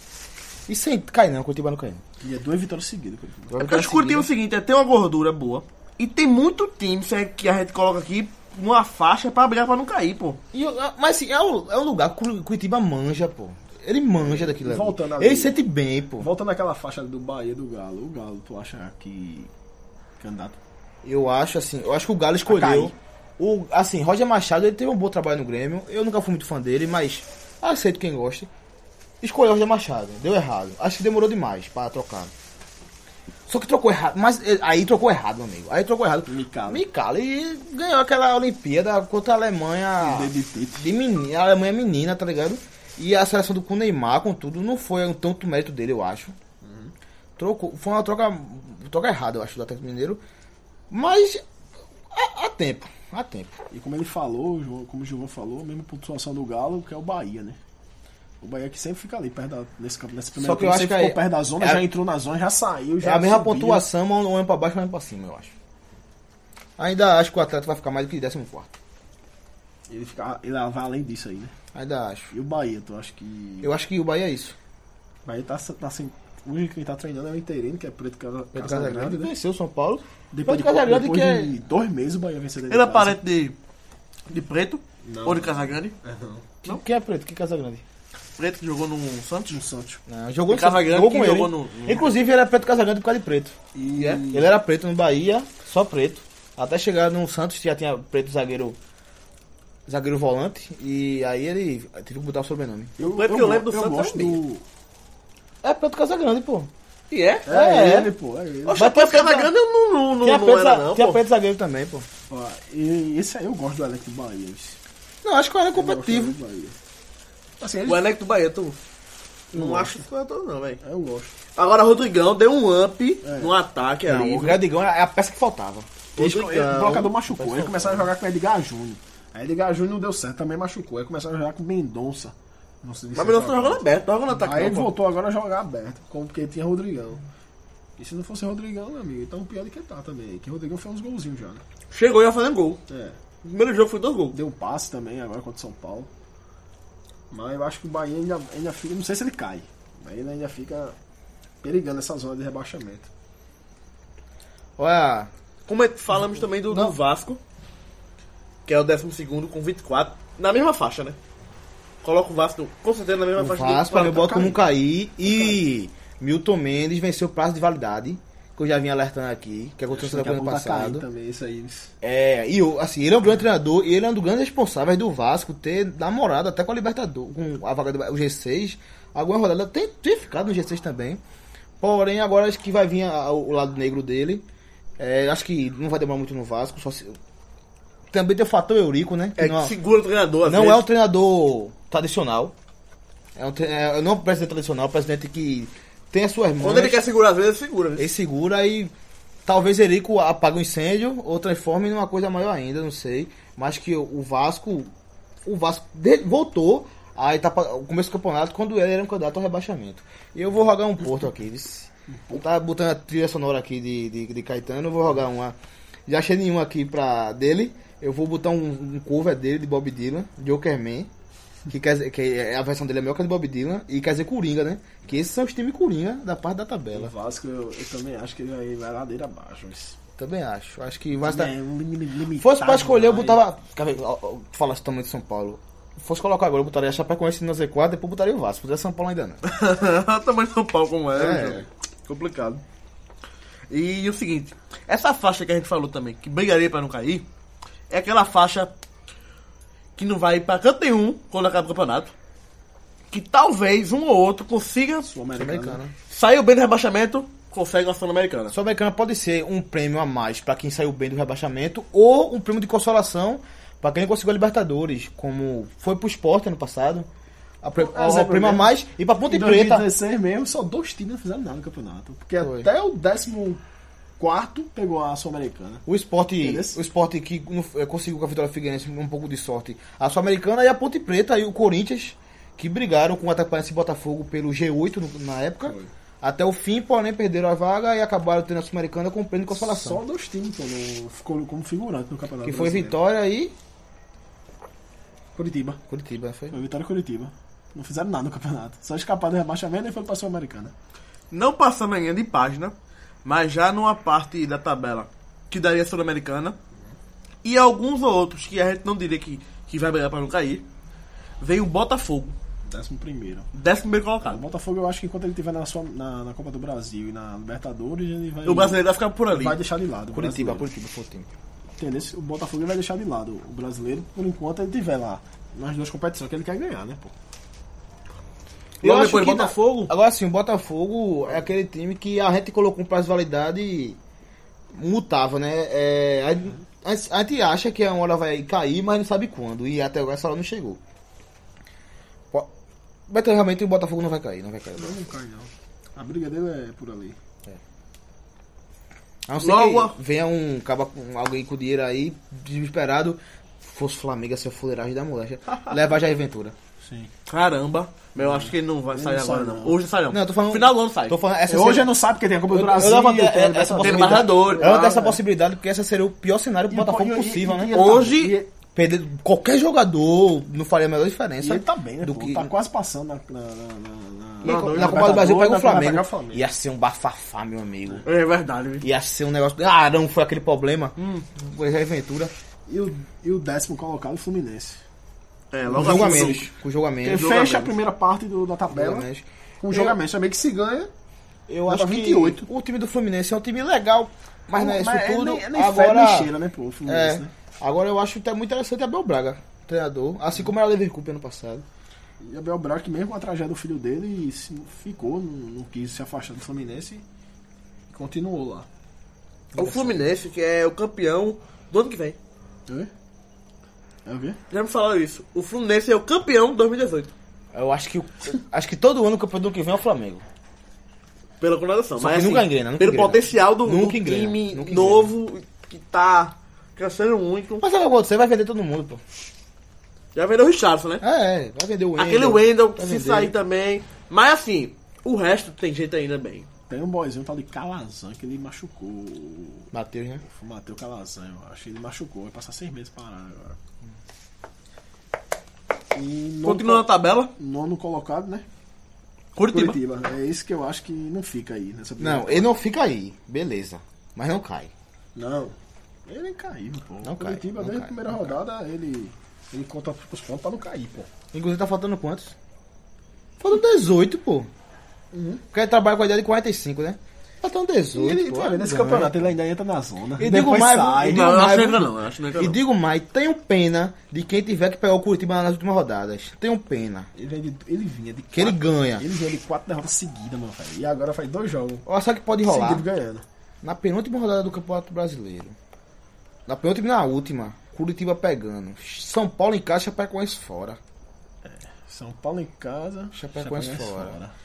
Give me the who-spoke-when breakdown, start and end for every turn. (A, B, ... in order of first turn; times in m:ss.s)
0:00.7-0:02.0 A
0:02.2-0:03.6 B
0:03.5-0:04.3 A
0:03.6-0:10.4 C
0:10.5-0:16.3 A
0:14.2-0:15.6 B
0:16.2-0:19.5 B
0:20.2-0:20.6 B
0:21.0-0:28.5 A
0:22.5-0:22.9 B
0:29.2-0:32.3 A
0:33.5-0:46.4 A
0:36.3-0:36.8 B
0:40.0-0:40.9 B
0:46.6-0:46.9 B
0:47.4-0:50.2 A
0:50.9-0:51.4 A
0:52.1-0:53.6 A
0:53.7-0:57.6 B
0:58.4-1:03.9 B
1:00.4-1:01.8 A
1:03.0-1:05.5 A
1:06.8-1:08.7 A
1:09.9-1:11.5 B
1:11.8-1:12.3 A
1:12.3-1:13.7 B
1:13.6-1:14.6 A
1:15.2-1:19.3 B
1:18.5-1:21.5 A
1:20.3-1:23.2 B
1:22.7-1:23.6 C
1:24.3-1:26.0 C
1:25.0-1:26.5 B
1:26.6-1:27.8 A
1:28.4-1:29.6 C
1:29.5-1:30.0 B
1:30.1-1:33.6 A
1:30.5-1:32.1 C
1:33.7-1:34.5 B
1:34.0-1:34.2 C
1:34.3-1:38.8 A
1:39.9-1:42.9 A
1:43.0-1:44.6 B
1:43.0-1:44.4 C
1:45.6-1:46.7 A
1:47.1-1:47.5 C
1:47.5-1:48.8 B
1:47.5-1:48.1 A
1:48.7-1:51.2 C
1:48.8-1:49.5 A
1:50.2-1:52.1 A
1:52.3-1:54.8 B
1:55.2-1:56.4 A
1:55.7-1:56.8 B
1:57.6-1:58.0 B
1:57.9-1:58.8 C
1:59.5-2:00.0 B
1:59.5-2:00.8 C
2:00.8-2:01.3 B
2:01.5-2:04.6 C
2:03.2-2:03.6 B
2:04.1-2:05.9 A
2:06.2-2:07.1 C
2:06.2-2:17.2 B
2:07.4-2:08.0 A
2:13.1-2:14.9 C
2:18.0-2:21.6 B
2:21.9-2:22.8 C
2:22.9-2:23.2 B
2:23.4-2:24.4 C
2:24.3-2:26.1 B
2:27.3-2:31.0 B
2:31.6-2:33.1 B
2:34.8-2:35.3 A
2:35.7-2:37.4 C
2:36.7-2:37.0 A
2:38.7-2:41.2 C
2:42.0-2:44.5 C
2:43.4-2:51.0 A
2:44.1-2:44.6 B
2:45.3-2:45.6 B
2:49.9-2:51.9 B
2:52.0-3:01.2 A
3:01.8-3:04.4 A
3:05.0-3:07.2 A
3:08.1-3:09.7 A
3:09.4-3:10.9 C
3:10.4-3:12.5 A
3:13.4-3:17.0 A
3:16.6-3:18.1 C
3:18.0-3:18.9 A
3:19.5-3:24.9 A
3:25.4-3:35.6 A
3:32.1-3:32.4 B
3:36.1-3:41.1 A
3:41.7-3:47.1 A
3:46.9-3:50.0 B
3:50.2-3:51.5 A
3:51.2-3:53.4 B
3:52.4-3:59.4 A
3:59.4-4:02.6 C
4:01.2-4:01.6 A
4:03.7-4:07.2 C
4:07.9-4:08.7 C
4:10.0-4:12.1 C
4:13.1-4:15.1 C
4:15.1-4:15.8 B
4:15.4-4:15.9 A
4:16.1-4:18.6 C
4:18.5-4:27.1 A
4:27.6-4:29.9 A
4:27.8-4:28.7 B
4:29.2-4:33.6 B
4:32.4-4:32.7 A
4:34.2-4:35.8 B
4:35.9-4:50.0 A
4:36.4-4:36.8 B
4:49.5-4:53.0 B
4:52.4-4:53.5 A
4:55.4-4:55.8 B
4:55.9-4:56.6 A
4:56.5-5:00.7 B
5:01.3-5:06.6 C
5:07.4-5:10.7 C
5:11.4-5:12.4 C
5:12.6-5:13.5 B
5:13.5-5:14.4 C
5:14.2-5:20.7 B
5:18.4-5:19.6 C
5:20.1-5:21.3 A
5:21.8-5:27.1 B
5:28.8-5:29.9 C
5:28.8-5:34.0 A
5:34.7-5:40.8 A
5:43.1-5:45.0 A
5:44.8-5:47.2 B
5:49.3-5:56.6 A
5:49.4-5:50.0 C
5:56.8-5:57.1 B
5:57.3-6:01.2 C
5:58.2-5:59.8 B
6:00.1-6:01.9 A
6:01.5-6:05.2 B
6:02.5-6:08.0 A
6:03.8-6:04.9 C
6:06.7-6:08.5 B
6:07.7-6:08.4 C
6:08.8-6:12.5 A
6:11.4-6:16.4 B
6:14.4-6:15.2 C
6:14.4-6:18.0 A
6:18.0-6:18.9 C
6:18.8-6:22.3 A
6:21.0-6:21.3 C
6:22.7-6:24.8 B
6:25.5-6:26.5 C
6:25.7-6:26.5 B
6:25.7-6:27.3 A
6:27.0-6:29.1 B
6:27.2-6:27.8 C
6:28.7-6:30.0 A
6:29.6-6:30.9 B
6:31.5-6:36.3 A
6:31.7-6:32.5 B
6:34.5-6:37.3 B
6:36.9-6:41.6 A
6:42.2-6:47.0 B
6:47.9-6:48.7 B
6:49.6-6:52.2 C
6:49.6-6:49.9 B
6:54.1-6:54.4 B
6:54.5-6:57.1 C
6:57.5-7:00.2 A
7:01.4-7:07.7 C
7:02.0-7:05.1 A
7:07.6-7:09.0 A
7:10.2-7:11.0 C
7:11.0-7:13.3 A
7:12.0-7:16.5 C
7:16.7-7:19.7 B
7:19.7-7:20.2 A
7:20.2-7:23.6 B
7:25.9-7:28.4 B
7:26.4-7:27.3 C
7:29.4-7:29.8 C
7:29.5-7:32.5 B
7:32.0-7:34.7 A
7:35.2-7:35.5 B
7:36.1-7:41.1 B
7:37.0-7:38.4 A
7:41.3-7:42.4 A
7:43.4-7:44.5 A
7:45.1-7:45.4 B
7:45.5-7:49.3 A
7:47.9-7:51.4 B
7:50.2-7:57.1 A
7:51.0-7:52.6 C
7:57.2-8:01.9 B
7:58.3-7:59.1 A
8:01.9-8:02.8 A
8:02.4-8:03.2 B
8:03.6-8:05.6 A
8:06.5-8:10.8 A
8:11.4-8:14.3 B
8:13.1-8:14.2 A